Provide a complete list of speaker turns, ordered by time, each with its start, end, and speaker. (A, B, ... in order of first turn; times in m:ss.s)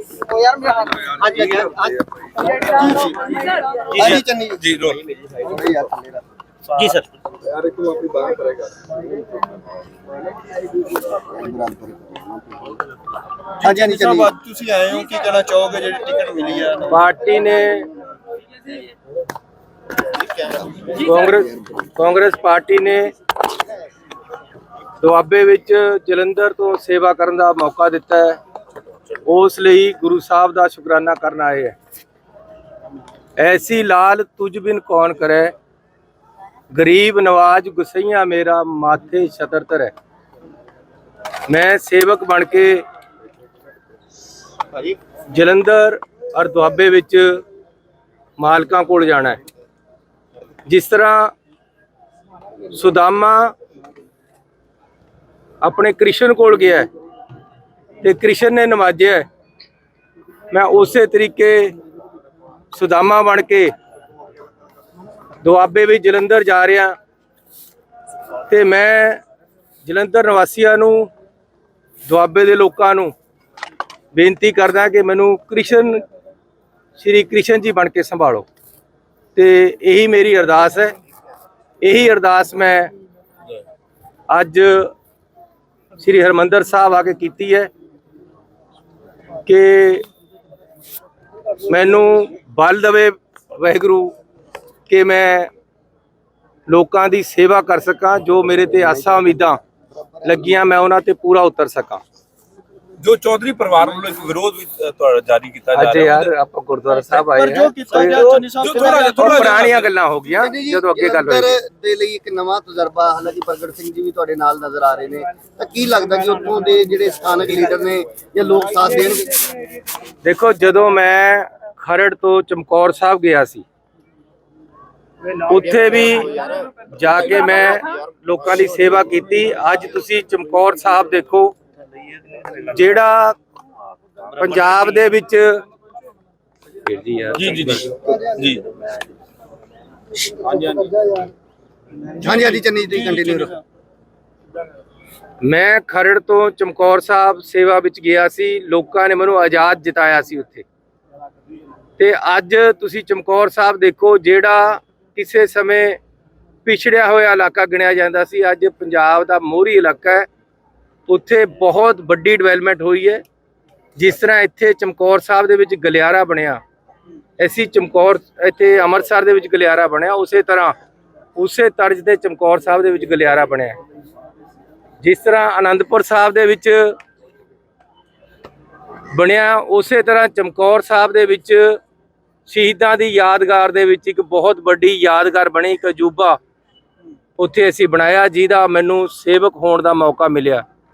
0:00.4-0:02.0 A
0:02.5-0:03.0 A
0:02.6-0:03.3 B
0:03.9-0:05.0 C
0:03.9-0:04.2 A
0:03.9-0:04.6 B
0:05.4-0:06.2 B
0:06.8-0:07.1 A
0:07.6-0:08.7 C
0:10.9-0:12.8 B
0:13.6-0:14.4 B
0:13.6-0:16.9 D
0:16.9-0:17.9 E
0:20.8-0:21.8 B
0:20.9-0:23.1 E
0:25.0-0:28.4 E
0:29.2-0:31.8 E
0:33.4-0:35.5 E
0:36.7-0:39.9 E
0:41.5-0:42.8 E
0:45.3-0:47.4 E
0:48.4-0:49.4 E
0:50.7-0:51.3 E
0:52.7-0:53.5 E
0:55.6-0:56.9 E
0:58.0-0:59.2 E
1:00.5-1:01.7 E
1:02.7-1:03.7 E
1:05.4-1:06.9 E
1:08.5-1:09.2 E
1:09.8-1:11.1 E
1:12.0-1:13.1 E
1:14.1-1:16.0 E
1:17.0-1:18.4 E
1:19.3-1:20.9 E
1:21.8-1:22.9 E
1:24.3-1:24.9 E
1:26.0-1:27.7 E
1:29.4-1:30.0 E
1:31.7-1:34.1 E
1:34.9-1:35.5 E
1:36.7-1:39.6 E
1:39.9-1:40.4 B
1:40.2-1:42.0 E
1:43.0-1:46.3 C
1:45.7-1:51.6 E
1:47.1-1:49.5 D
1:48.4-1:49.9 C
1:50.3-1:59.3 B
2:00.2-2:03.6 E
2:05.4-2:06.3 E
2:06.9-2:11.5 E
2:12.7-2:13.4 E
2:14.4-2:15.6 E
2:16.8-2:17.9 E
2:17.3-2:18.6 C
2:20.4-2:21.2 D
2:22.2-2:23.5 B
2:25.4-2:30.6 E
2:32.0-2:36.0 E
2:36.6-2:40.3 E
2:41.1-2:43.2 E
2:44.0-2:46.6 E
2:47.4-2:50.7 E
2:51.4-2:53.8 E
2:55.0-2:56.9 E
2:59.1-3:01.8 E
3:02.4-3:06.4 E
3:07.4-3:10.6 E